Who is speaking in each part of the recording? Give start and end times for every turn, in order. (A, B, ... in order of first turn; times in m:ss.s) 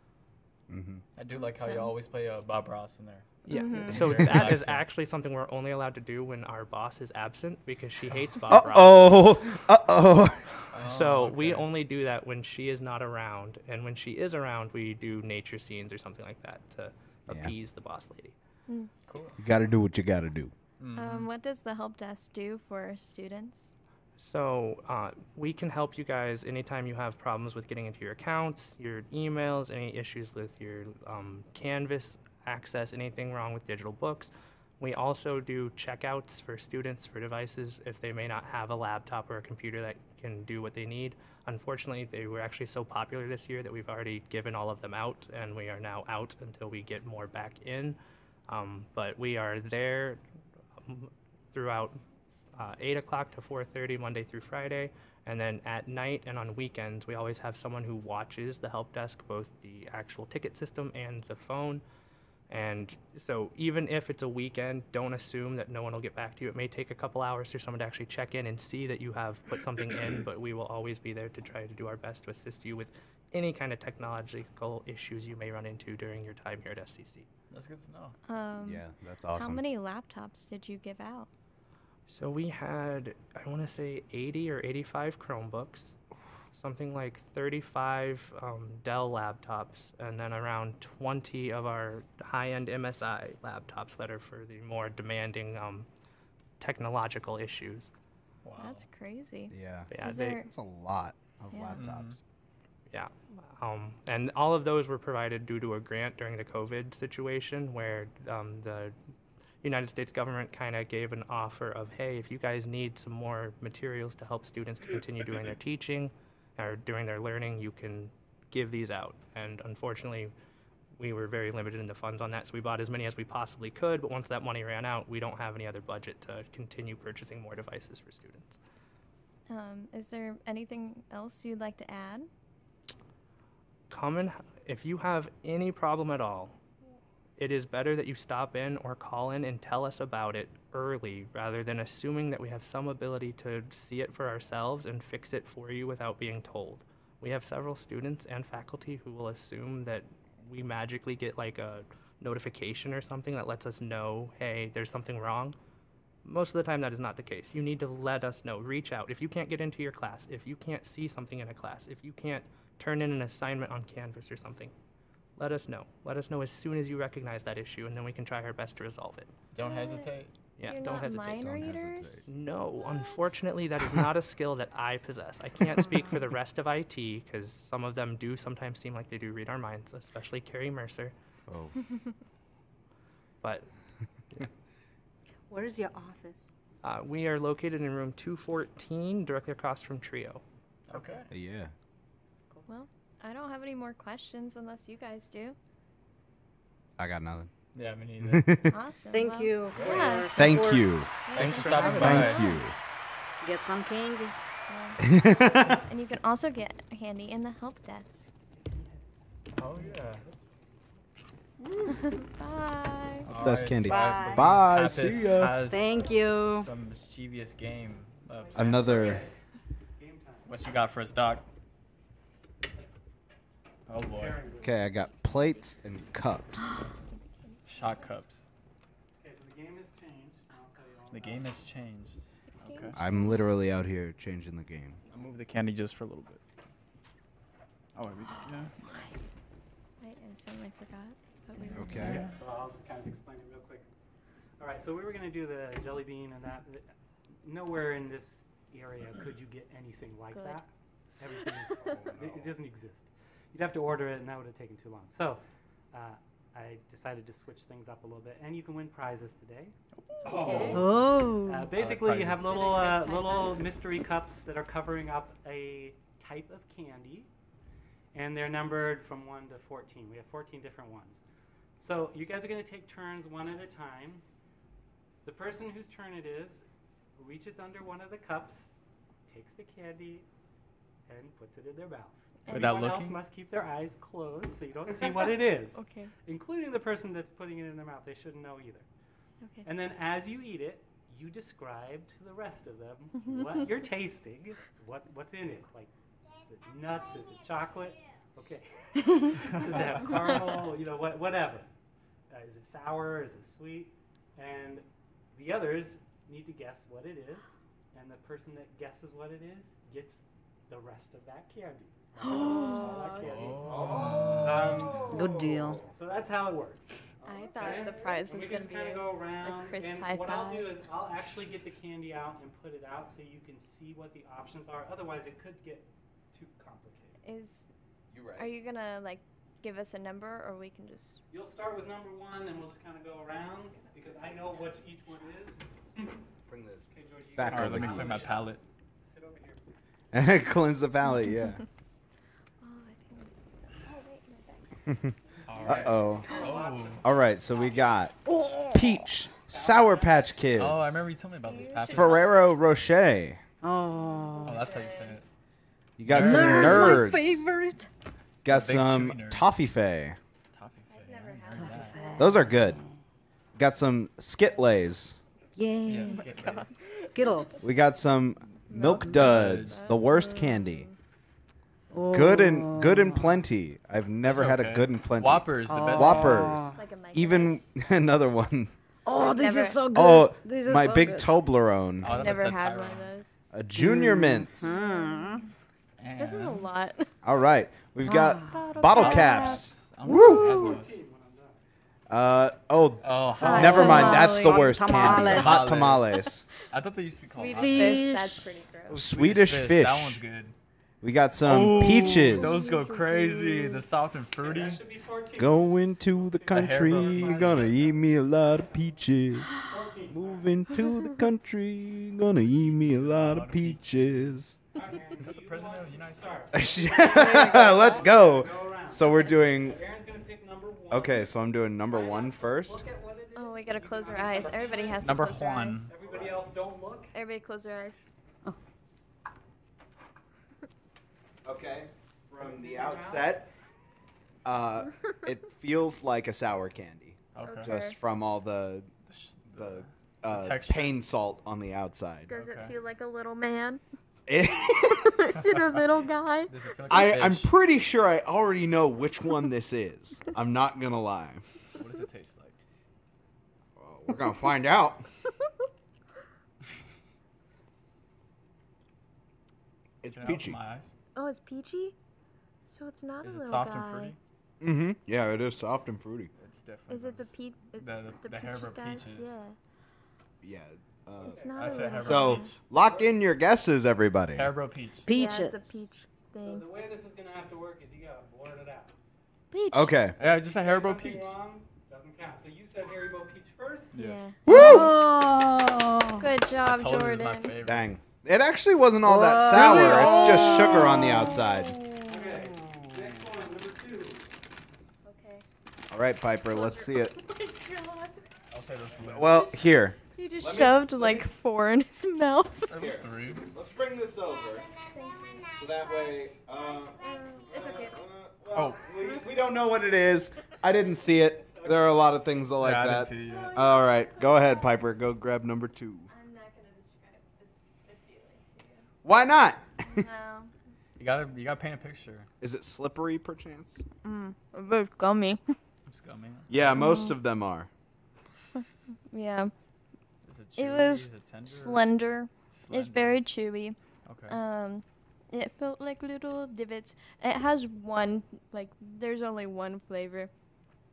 0:00.7-0:01.0 A
0:01.2-0:04.8 B
0:01.3-0:01.9 C
0:03.5-0:09.2 D
0:03.5-0:04.4 C
0:08.5-0:10.4 A
0:10.7-0:11.7 B
0:10.8-0:18.4 D
0:17.3-0:17.5 A
0:18.7-0:18.9 C
0:19.1-0:19.4 B
0:19.4-0:20.5 A
0:20.8-0:21.3 B
0:21.0-0:23.8 C
0:24.2-0:50.2 D
0:50.8-0:52.0 D
0:52.6-1:01.8 D
1:02.5-1:17.3 D
1:17.5-1:18.2 B
1:18.3-1:21.3 C
1:18.6-1:19.6 A
1:22.1-1:26.0 D
1:26.5-1:35.9 D
1:36.6-1:37.9 D
1:38.4-1:38.9 B
1:38.6-1:40.5 C
1:39.5-1:42.2 A
1:39.9-1:40.4 D
1:41.5-1:41.8 C
1:41.7-1:42.2 B
1:42.9-1:49.0 D
1:49.6-2:00.3 D
2:01.0-2:08.6 D
2:09.5-2:12.3 C
2:13.9-2:16.6 D
2:17.4-2:35.6 D
2:36.2-2:44.7 D
2:45.4-2:49.3 D
2:49.5-2:50.3 B
2:49.6-2:50.1 C
2:50.6-2:51.5 D
2:50.6-2:53.3 C
2:51.1-2:52.3 A
2:52.3-3:01.1 D
3:01.5-3:01.8 A
3:03.4-3:03.7 D
3:05.5-3:06.5 E
3:06.8-3:10.4 D
3:10.9-3:11.3 B
3:11.3-3:11.7 A
3:12.7-3:15.6 C
3:17.0-3:17.5 A
3:17.7-3:18.6 B
3:18.2-3:18.7 A
3:18.7-3:20.3 C
3:19.1-3:21.0 E
3:20.3-3:21.1 A
3:21.3-3:22.7 C
3:21.3-3:22.5 B
3:21.4-3:22.4 D
3:21.9-3:22.8 A
3:23.4-3:24.4 E
3:24.7-3:28.3 C
3:25.0-3:25.9 A
3:29.6-3:30.2 B
3:31.9-3:33.3 C
3:33.2-3:39.3 B
3:33.4-3:35.7 A
3:33.8-3:34.6 E
3:35.6-3:36.7 E
3:38.6-3:39.3 A
3:38.6-3:39.4 F
3:40.0-3:40.5 F
3:40.5-3:41.4 B
3:43.9-3:44.4 B
3:44.0-3:44.8 F
3:44.6-3:46.8 A
3:47.1-3:48.1 C
3:47.7-3:48.4 B
3:49.2-3:51.6 F
3:51.1-3:53.0 B
3:52.5-3:53.4 C
3:53.0-3:55.0 A
3:55.1-3:56.4 B
3:58.0-3:58.7 B
4:00.0-4:02.2 C
4:01.7-4:02.2 A
4:01.9-4:03.9 F
4:02.0-4:02.3 B
4:04.6-4:19.8 F
4:10.3-4:10.6 C
4:11.8-4:12.5 A
4:20.2-4:20.8 C
4:20.2-4:20.8 A
4:20.3-4:20.7 B
4:20.4-4:20.8 F
4:20.7-4:21.7 E
4:21.5-4:27.3 F
4:21.7-4:22.6 B
4:22.3-4:23.7 C
4:28.1-4:31.2 F
4:31.8-4:34.2 F
4:35.2-4:36.6 F
4:37.2-4:38.7 F
4:39.3-4:40.3 F
4:41.1-4:48.9 F
4:42.4-4:42.9 C
4:42.5-4:43.2 B
4:45.7-4:46.1 C
4:49.4-4:49.7 C
4:49.6-4:55.9 F
4:53.3-4:53.6 C
4:56.4-5:01.7 F
5:02.3-5:27.2 F
5:12.2-5:13.6 C
5:13.2-5:14.9 B
5:13.7-5:15.8 A
5:15.1-5:15.8 E
5:17.2-5:20.8 C
5:27.2-5:27.7 C
5:28.1-5:28.5 A
5:28.4-5:31.2 C
5:31.3-5:36.2 F
5:33.8-5:34.9 C
5:36.5-5:38.4 A
5:36.9-5:39.8 F
5:37.5-5:38.6 B
5:40.1-5:41.6 A
5:42.6-5:44.8 C
5:44.9-5:46.3 A
5:45.5-5:47.0 B
5:45.6-5:48.0 F
5:47.0-5:48.2 A
5:48.2-5:49.0 E
5:48.7-5:51.0 A
5:49.4-5:50.3 F
5:50.6-5:52.3 B
5:51.4-5:52.4 C
5:51.9-5:53.4 A
5:53.6-5:54.6 E
5:54.4-5:55.3 B
5:54.4-5:55.2 C
5:56.0-5:57.4 A
5:56.1-5:57.0 B
5:56.1-5:57.9 E
5:58.4-6:00.2 A
5:58.5-5:59.4 B
6:00.5-6:02.1 B
6:00.9-6:02.4 C
6:01.5-6:03.0 E
6:02.2-6:02.8 A
6:03.6-6:05.2 A
6:05.6-6:07.6 E
6:05.9-6:06.8 B
6:06.1-6:07.5 C
6:07.6-6:10.9 A
6:08.7-6:11.0 C
6:09.1-6:09.9 B
6:11.9-6:13.4 E
6:12.1-6:18.7 A
6:14.2-6:16.7 B
6:15.6-6:16.8 E
6:16.8-6:17.6 C
6:19.0-6:21.3 E
6:19.1-6:19.8 C
6:19.9-6:22.2 A
6:22.0-6:23.1 B
6:22.0-6:23.4 C
6:23.5-6:24.7 A
6:23.7-6:25.4 E
6:24.6-6:25.4 C
6:26.0-6:26.8 B
6:26.2-6:27.1 C
6:27.2-6:30.5 A
6:28.0-6:28.8 E
6:28.5-6:29.7 C
6:28.8-6:31.0 B
6:30.1-6:31.6 F
6:32.1-6:36.5 A
6:33.0-6:34.3 B
6:33.4-6:35.7 C
6:33.4-6:35.6 E
6:35.0-6:38.2 B
6:37.2-6:39.0 C
6:37.5-6:38.5 E
6:38.9-6:40.2 A
6:38.9-6:40.6 B
6:41.0-6:42.7 A
6:41.4-6:44.8 B
6:41.7-6:43.8 C
6:44.4-6:48.9 F
6:45.4-6:49.6 A
6:46.5-6:47.8 B
6:49.6-6:50.6 F
6:50.1-6:54.6 A
6:52.7-6:54.0 B
6:54.7-7:05.3 F
6:54.9-6:56.7 B
6:56.5-6:59.8 A
6:57.0-6:58.0 E
7:00.9-7:02.8 A
7:03.3-7:05.9 C
7:05.0-7:05.9 B
7:05.9-7:07.1 F
7:06.0-7:06.4 A
7:07.1-7:08.1 C
7:11.4-7:13.5 A
7:12.4-7:13.4 F
7:14.4-7:18.9 A
7:17.3-7:17.7 B
7:17.4-7:18.0 C
7:19.1-7:21.0 B
7:19.5-7:22.3 A
7:22.3-7:23.8 C
7:22.3-7:22.8 B
7:24.3-7:25.2 A
7:25.0-7:26.5 C
7:26.5-7:27.5 B
7:26.9-7:31.4 A
7:31.8-7:32.6 B
7:33.8-7:35.1 A
7:40.0-7:40.6 A
7:40.1-7:40.9 B
7:41.2-7:42.0 C
7:42.7-7:44.2 C
7:43.2-7:44.2 B
7:44.6-7:46.3 A
7:46.4-7:49.3 B
7:46.9-7:49.6 C
7:50.4-7:54.5 A
7:51.2-7:52.6 C
7:51.3-7:52.2 F
7:51.6-7:52.6 B
7:52.8-7:53.2 F
7:54.3-7:55.1 B
7:55.1-7:55.8 E
7:55.1-7:56.7 C
7:56.4-7:58.9 F
7:59.5-8:00.0 C
7:59.7-8:00.2 A
8:00.2-8:01.4 B
8:00.2-8:04.0 F
8:03.9-8:04.3 B
8:04.0-8:04.9 C
8:04.4-8:06.3 E
8:04.5-8:05.0 A
8:06.2-8:07.5 C
8:06.6-8:07.9 B
8:07.6-8:11.8 A
8:09.0-8:12.8 E
8:09.5-8:10.8 B
8:12.1-8:14.3 F
8:12.7-8:13.2 B
8:15.0-8:15.4 C
8:15.9-8:17.1 A
8:16.5-8:18.2 C
8:18.5-8:19.4 B
8:19.1-8:21.3 A
8:19.2-8:22.7 C
8:22.7-8:23.4 B
8:22.7-8:24.8 A
8:24.9-8:25.6 C
8:25.5-8:36.1 A
8:27.0-8:28.0 C
8:28.5-8:28.8 B
8:31.6-8:32.0 F
8:32.6-8:33.6 B
8:33.3-8:34.8 C
8:36.1-8:38.9 C
8:39.0-8:40.0 A
8:39.8-8:40.5 C
8:41.0-8:42.3 B
8:42.4-8:43.8 A
8:44.0-8:45.6 C
8:45.9-8:46.5 B
8:46.5-8:47.7 A
8:46.8-8:47.2 C
8:48.4-8:48.7 B
8:48.6-8:49.5 C
8:50.2-8:51.9 B
8:50.6-9:00.3 C
8:52.5-8:53.2 B
8:54.0-8:54.4 B